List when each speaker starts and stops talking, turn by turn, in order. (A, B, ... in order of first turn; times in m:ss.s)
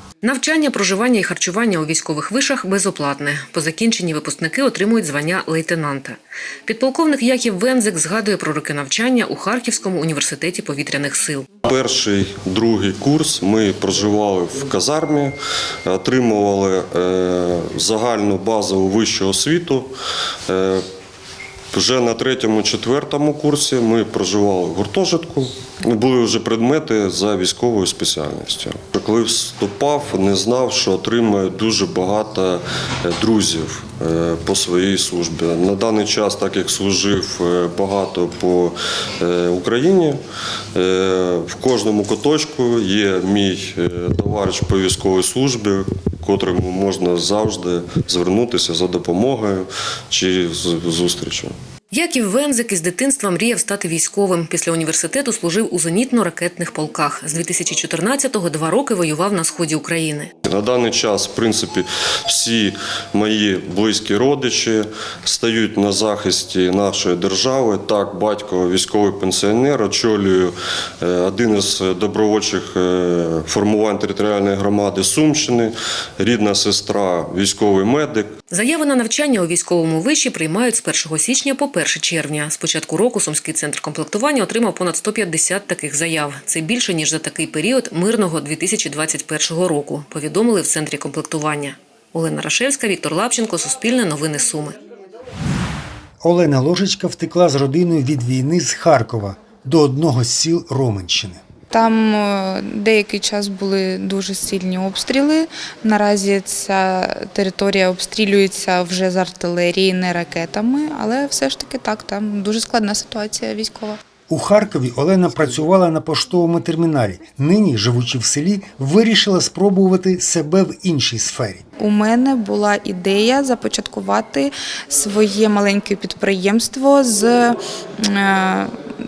0:00.2-0:11.5 A
0:11.6-0:15.4 B
0:15.9-0:19.9 B
0:20.5-0:20.8 B
0:21.7-0:40.2 B
0:40.8-0:51.6 B
0:51.9-1:00.3 A
1:00.4-1:18.3 B
1:18.5-1:34.8 A
1:36.2-1:41.4 C
1:41.7-1:54.0 D
1:54.3-2:01.6 C
2:01.8-2:07.6 D
2:08.1-2:08.7 D